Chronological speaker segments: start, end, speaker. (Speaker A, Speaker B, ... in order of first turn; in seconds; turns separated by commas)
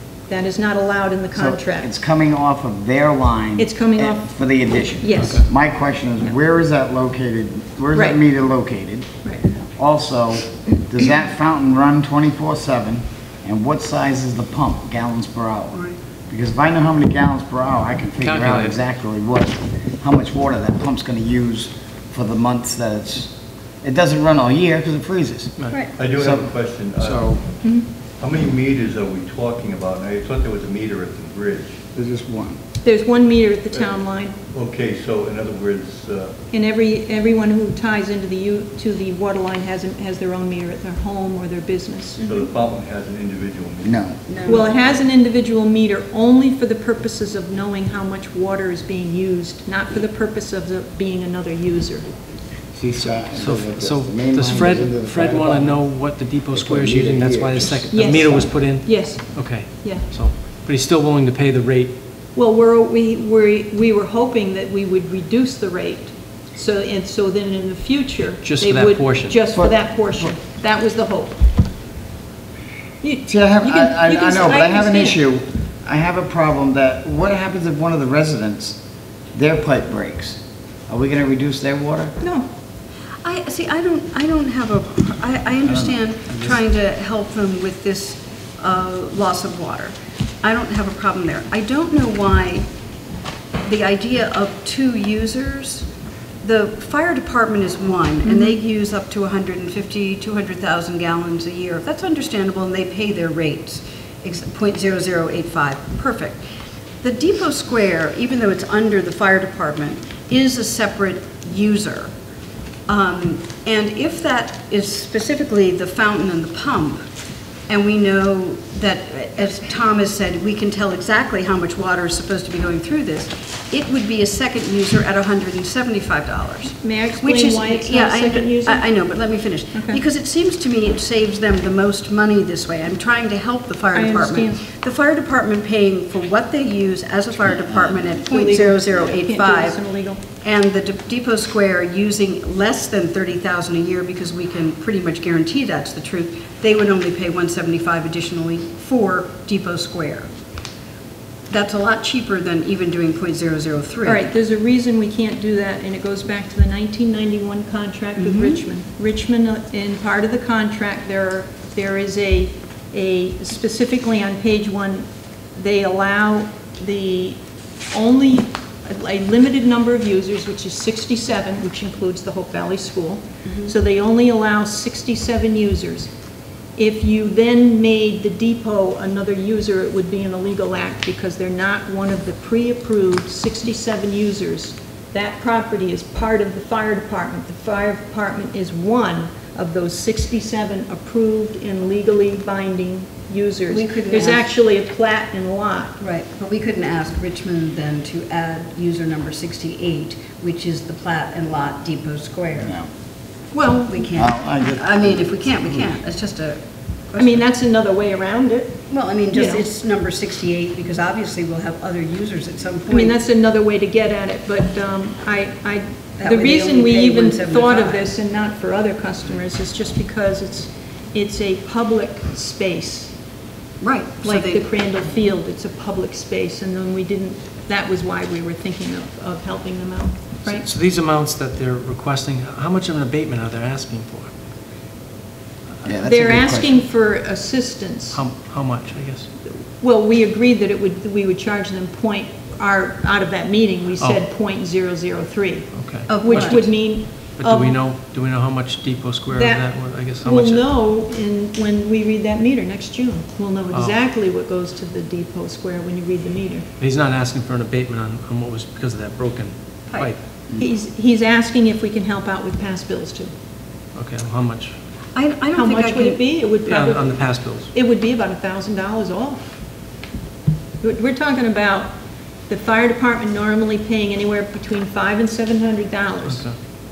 Speaker A: 0.3-1.9, Speaker B: 1.3-9.1, Speaker A: 3.6-4.2, Speaker A: 5.0-5.5, Speaker C: 5.2-5.4, Speaker A: 7.9-8.2, Speaker B: 9.8-25.6, Speaker C: 18.2-18.8, Speaker C: 25.6-25.8, Speaker D: 25.9-27.5, Speaker B: 26.1-27.4, Speaker D: 28.2-31.8, Speaker B: 31.9-32.6, Speaker A: 32.8-34.4, Speaker D: 34.5-36.4, Speaker A: 36.5-42.2, Speaker D: 42.2-44.2, Speaker E: 42.2-42.5, Speaker B: 43.8-44.2, Speaker E: 44.3-44.7, Speaker A: 44.5-52.0, Speaker B: 52.7-58.5, Speaker C: 53.3-61.9, Speaker A: 57.9-60.0, Speaker A: 62.3-71.4, Speaker C: 68.4-69.4, Speaker B: 69.5-70.3, Speaker A: 73.0-75.2, Speaker B: 73.3-78.8, Speaker B: 79.3-82.2, Speaker A: 82.2-82.5, Speaker E: 83.2-92.7, Speaker B: 85.7-86.6, Speaker E: 93.6-95.8, Speaker E: 96.4-106.4, Speaker A: 98.2-98.6, Speaker E: 107.0-112.1, Speaker E: 112.9-117.0, Speaker E: 117.7-139.8, Speaker A: 126.8-128.9, Speaker A: 129.7-130.0, Speaker A: 133.9-134.6, Speaker A: 138.3-140.2, Speaker E: 140.4-150.3, Speaker E: 151.5-154.2, Speaker A: 154.0-176.1, Speaker E: 158.2-158.6, Speaker E: 173.4-173.7, Speaker A: 176.8-196.0, Speaker E: 193.7-194.5, Speaker E: 196.0-202.7, Speaker B: 202.6-202.9, Speaker A: 203.5-204.1, Speaker E: 203.9-206.6, Speaker B: 204.1-205.9, Speaker E: 207.1-207.4, Speaker A: 207.2-209.7, Speaker E: 208.9-213.2, Speaker A: 212.9-223.1, Speaker E: 216.2-218.1, Speaker E: 223.8-224.6, Speaker A: 224.2-230.7, Speaker C: 230.5-234.3, Speaker B: 235.8-236.8, Speaker A: 236.0-238.2, Speaker C: 238.1-239.3, Speaker A: 239.5-247.8, Speaker C: 245.7-250.6, Speaker E: 246.1-246.7, Speaker A: 249.3-256.7, Speaker C: 253.7-254.0, Speaker C: 256.8-260.2, Speaker A: 260.6-263.3, Speaker C: 263.9-264.7, Speaker E: 265.1-266.2, Speaker A: 265.5-269.6, Speaker C: 266.6-267.7, Speaker A: 270.8-271.9, Speaker A: 272.5-276.4, Speaker C: 276.2-276.6